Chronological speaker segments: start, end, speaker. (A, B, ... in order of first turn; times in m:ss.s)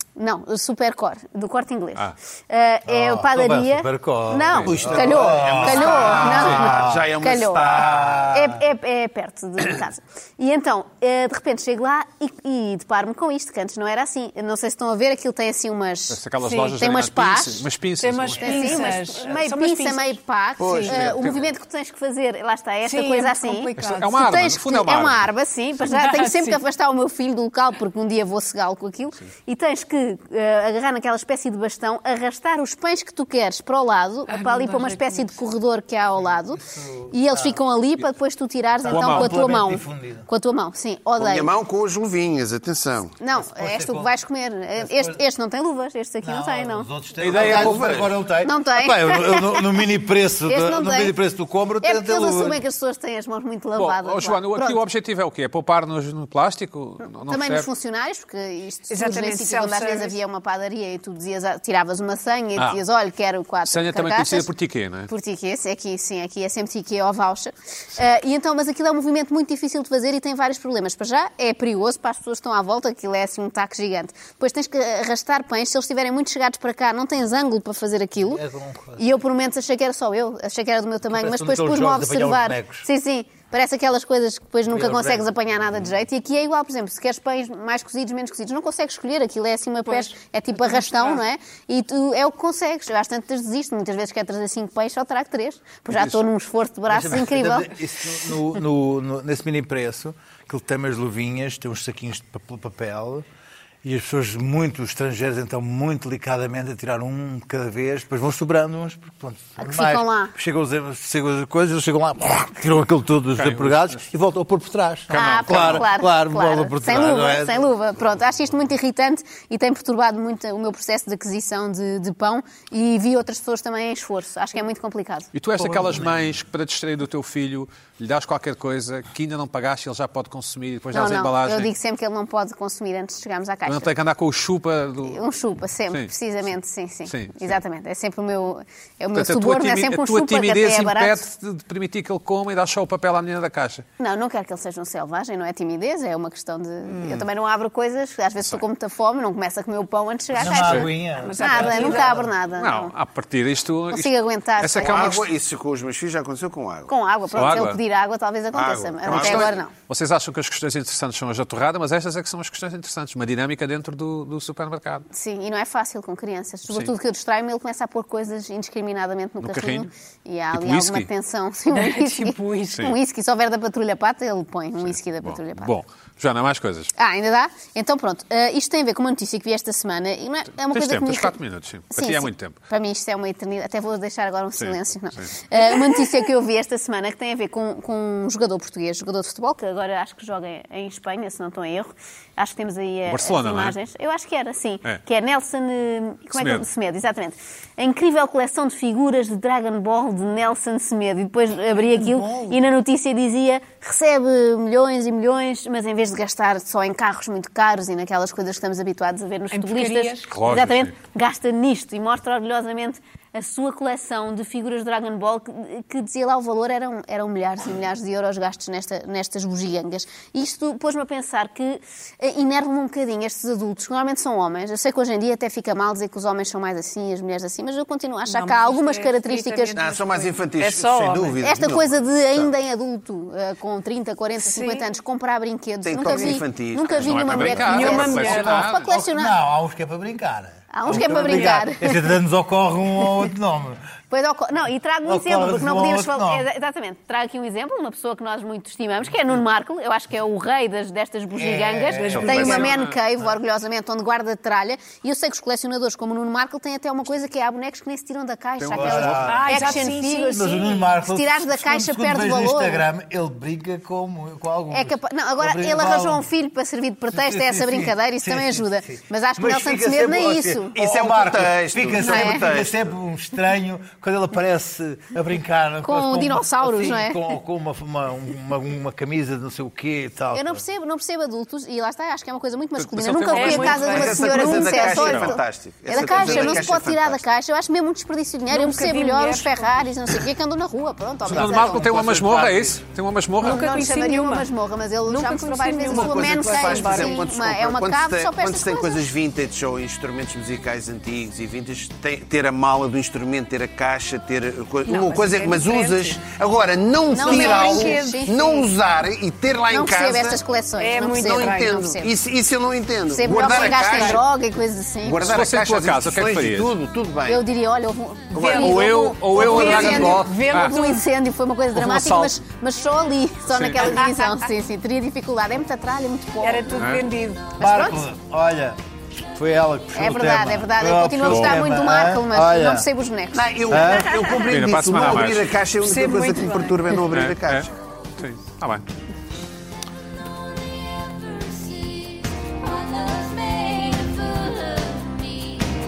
0:00.2-0:17.7 A
0:02.9-0:08.6 B
0:04.5-0:04.8 C
0:04.7-0:08.3 D
0:06.2-0:06.5 C
0:16.1-0:19.0 C
0:16.4-0:16.7 E
0:18.0-0:21.0 E
0:18.4-0:41.5 A
0:20.6-0:21.5 C
0:22.8-0:24.1 E
0:23.8-0:25.2 C
0:25.8-0:26.6 E
0:34.3-0:35.3 E
0:36.2-0:37.6 B
0:38.8-0:39.3 C
0:38.8-0:40.3 B
0:41.2-0:43.2 D
0:43.2-0:46.9 A
0:43.3-0:44.1 B
0:44.7-0:45.2 B
0:46.2-0:52.6 B
0:47.2-0:48.2 D
0:47.2-0:48.1 C
0:48.4-0:49.9 A
0:50.5-0:51.2 A
0:51.8-0:54.8 A
0:53.7-0:57.7 C
0:57.2-1:04.5 A
0:58.9-1:00.2 E
1:03.7-1:05.1 C
1:05.1-1:18.4 A
1:18.2-1:19.0 B
1:19.0-1:37.7 A
1:21.1-1:22.9 B
1:24.7-1:25.3 B
1:29.8-1:31.2 E
1:35.9-1:36.2 C
1:36.9-1:43.2 B
1:43.8-1:57.7 B
1:49.6-1:50.3 A
1:53.3-1:54.1 C
1:55.1-1:55.9 C
1:55.1-2:05.3 A
2:05.3-2:11.7 C
2:05.6-2:06.2 B
2:10.9-2:13.9 A
2:13.6-2:15.2 C
2:15.0-2:21.2 A
2:15.9-2:16.5 C
2:17.0-2:17.6 C
2:19.1-2:23.8 C
2:24.0-2:32.9 A
2:26.8-2:27.3 C
2:30.3-2:32.3 B
2:30.4-2:30.9 C
2:31.2-2:32.1 E
2:32.5-2:35.2 C
2:33.9-2:35.2 A
2:34.8-2:36.9 D
2:36.9-2:39.7 A
2:37.3-2:37.8 C
2:38.5-2:39.6 D
2:39.0-2:45.0 C
2:45.1-2:55.7 A
2:49.4-2:49.9 C
2:50.5-2:51.1 C
2:51.7-2:52.8 E
2:54.8-2:56.9 C
2:56.9-3:01.4 A
3:00.6-3:02.6 C
3:01.9-3:49.8 A
3:04.6-3:05.3 C
3:13.0-3:13.8 C
3:16.3-3:16.7 C
3:21.9-3:22.6 B
3:29.5-3:30.3 E
3:30.3-3:30.9 C
3:48.2-3:51.4 E
3:49.8-3:52.5 D
3:51.4-3:59.3 A
3:54.4-3:54.8 E
3:55.8-3:58.3 D
3:56.0-3:56.4 E
3:57.0-3:58.9 C
3:57.5-3:58.6 E
3:58.3-4:03.8 B
4:00.7-4:02.1 A
4:01.0-4:01.6 E
4:04.1-4:22.8 A
4:05.0-4:06.5 B
4:11.3-4:12.6 B
4:11.9-4:12.7 E
4:12.2-4:12.9 C
4:18.6-4:19.8 C
4:18.7-4:26.2 B
4:19.2-4:20.7 E
4:24.7-4:30.8 A
4:27.1-4:40.6 B
4:30.8-4:32.9 D
4:32.0-4:32.5 A
4:35.8-4:37.2 A
4:40.3-4:51.9 A
4:42.8-4:44.2 C
4:43.3-4:45.0 E
4:43.7-4:47.2 D
4:44.8-4:45.4 C
4:46.3-4:46.5 B
4:48.5-4:49.8 E
4:51.2-4:52.8 B
4:51.2-4:53.8 C
4:53.4-4:54.5 E
4:53.4-4:59.0 A
4:55.0-4:57.2 E
4:55.8-5:10.4 D
5:04.9-5:06.2 E
5:07.1-5:08.7 A
5:07.2-5:08.2 E
5:09.7-5:12.1 A
5:10.8-5:12.0 E
5:11.1-5:14.3 D
5:13.1-5:15.4 A
5:13.4-5:14.2 E
5:15.0-5:17.4 D
5:15.2-5:16.7 C
5:17.3-5:26.9 A
5:18.3-5:21.0 E
5:18.3-5:20.2 D
5:18.6-5:20.8 C
5:21.7-5:22.4 C
5:23.5-5:23.9 C
5:23.8-5:24.3 E
5:26.4-5:27.9 E
5:26.7-5:27.0 C
5:27.6-5:32.9 B
5:27.6-5:28.0 A
5:29.9-5:33.5 A
5:31.2-5:31.6 C
5:33.3-5:37.7 D
5:33.7-5:34.2 B
5:34.4-5:35.5 C
5:35.8-5:37.0 E
5:37.1-5:38.8 C
5:40.8-5:45.5 E